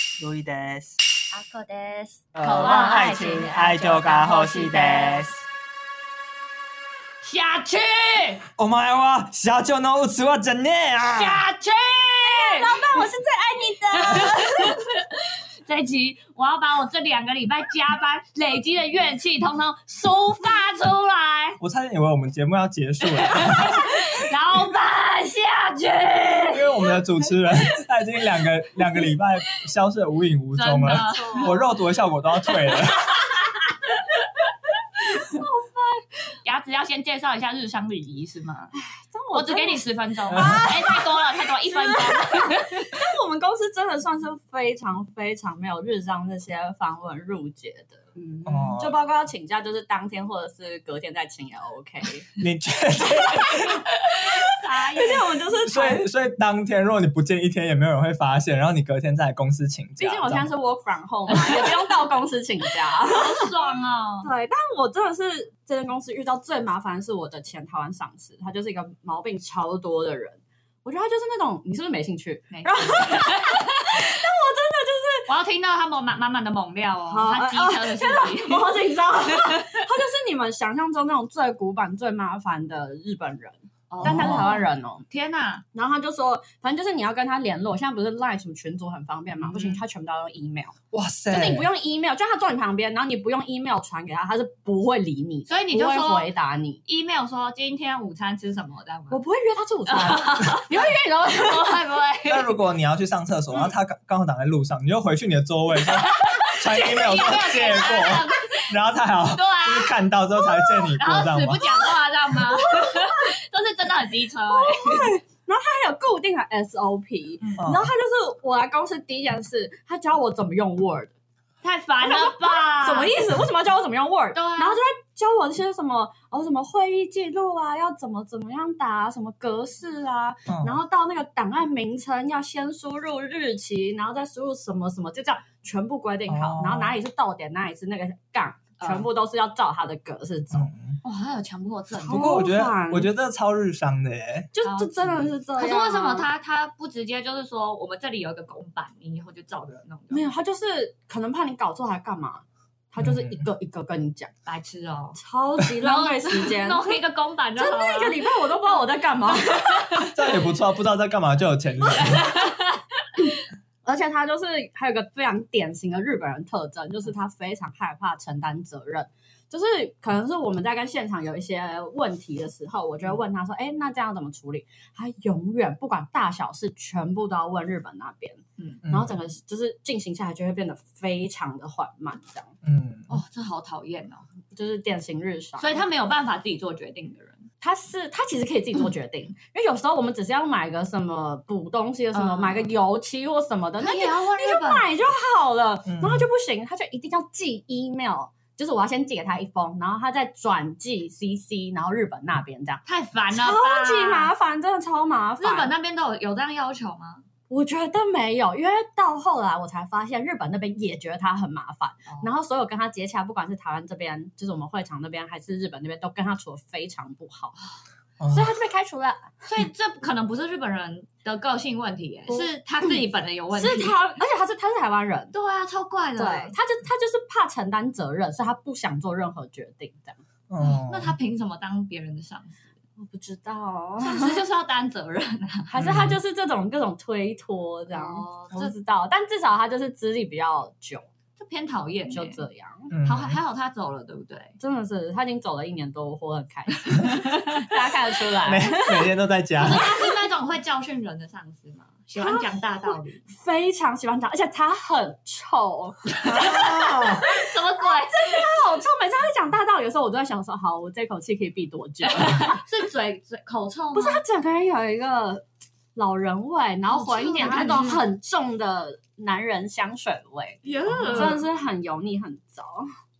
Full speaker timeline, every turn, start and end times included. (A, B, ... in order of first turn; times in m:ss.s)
0:00.2-0:01.0 A
0:01.4-0:05.2 B
0:01.6-0:04.2 C
0:02.4-0:05.4 A
0:07.2-0:08.4 B
0:08.6-0:11.4 A
0:11.1-0:13.1 B
0:12.2-0:14.8 C
0:14.0-0:21.6 B
0:21.6-0:24.0 A
0:23.0-0:27.2 B
0:26.5-0:33.2 A
0:30.6-0:31.6 B
0:31.0-0:31.7 C
0:32.5-0:35.4 B
0:35.2-0:36.0 C
0:36.4-0:38.7 B
0:38.8-0:52.2 C
0:39.3-0:42.8 B
0:40.3-0:40.6 A
0:48.5-0:49.0 A
0:52.4-0:53.9 A
0:54.1-0:55.4 B
0:55.0-0:56.0 C
0:55.7-1:00.5 A
1:00.0-1:03.5 C
1:01.3-1:02.0 B
1:03.1-1:04.3 B
1:04.2-1:15.3 C
1:12.5-1:14.1 B
1:15.3-1:18.8 B
1:17.1-1:25.0 C
1:19.4-1:19.8 B
1:23.9-1:25.6 B
1:24.0-1:24.6 A
1:25.7-1:30.8 C
1:29.5-1:29.8 B
1:30.9-1:31.7 A
1:31.3-1:36.8 C
1:35.5-1:36.3 B
1:36.9-1:39.2 B
1:39.1-1:41.8 C
1:39.9-1:42.5 B
1:42.3-1:51.7 A
1:45.9-1:48.8 B
1:49.3-1:50.0 B
1:51.0-1:55.1 B
1:52.6-1:53.2 C
1:54.5-2:01.1 C
1:57.6-1:57.9 A
2:01.6-2:03.2 B
2:02.0-2:20.7 C
2:04.4-2:04.8 B
2:10.5-2:10.8 A
2:16.3-2:17.0 A
2:18.8-2:19.1 B
2:20.5-2:21.0 A
2:21.0-2:22.4 B
2:22.0-2:23.1 C
2:22.1-2:24.5 A
2:24.5-2:26.3 C
2:24.6-2:30.3 B
2:30.1-2:34.3 C
2:33.0-2:33.4 A
2:34.5-2:35.2 B
2:35.2-2:37.0 C
2:35.8-2:38.3 B
2:37.6-2:40.1 C
2:40.0-2:42.3 A
2:42.0-2:42.8 B
2:43.2-3:02.5 C
2:58.9-2:59.1 A
3:02.6-3:03.2 A
3:03.1-3:04.2 B
3:04.5-3:05.8 C
3:05.6-3:07.5 B
3:07.6-3:25.7 C
3:12.1-3:12.7 B
3:13.8-3:14.9 B
3:15.9-3:16.3 A
3:22.8-3:24.3 B
3:25.4-3:27.2 B
3:27.5-3:37.6 C
3:38.2-3:38.5 A
3:38.3-3:39.3 C
3:39.4-3:44.0 B
3:43.5-3:45.3 C
3:45.3-3:46.5 B
3:46.2-3:50.2 C
3:50.5-3:51.2 A
3:50.6-3:52.6 B
3:53.0-3:54.4 C
3:54.0-3:55.8 B
3:55.7-4:01.1 C
3:55.8-3:56.2 A
3:57.9-3:58.7 B
4:01.4-4:02.4 B
4:02.1-4:02.9 C
4:02.9-4:03.4 A
4:03.0-4:04.6 B
4:04.6-4:09.1 C
4:08.4-4:09.9 A
4:09.6-4:13.2 B
4:09.7-4:10.1 C
4:12.2-4:22.6 C
4:16.2-4:18.5 B
4:16.3-4:17.2 A
4:22.1-4:24.2 B
4:23.9-4:25.4 C
4:26.0-4:32.9 C
4:26.9-4:28.0 B
4:30.6-4:31.4 B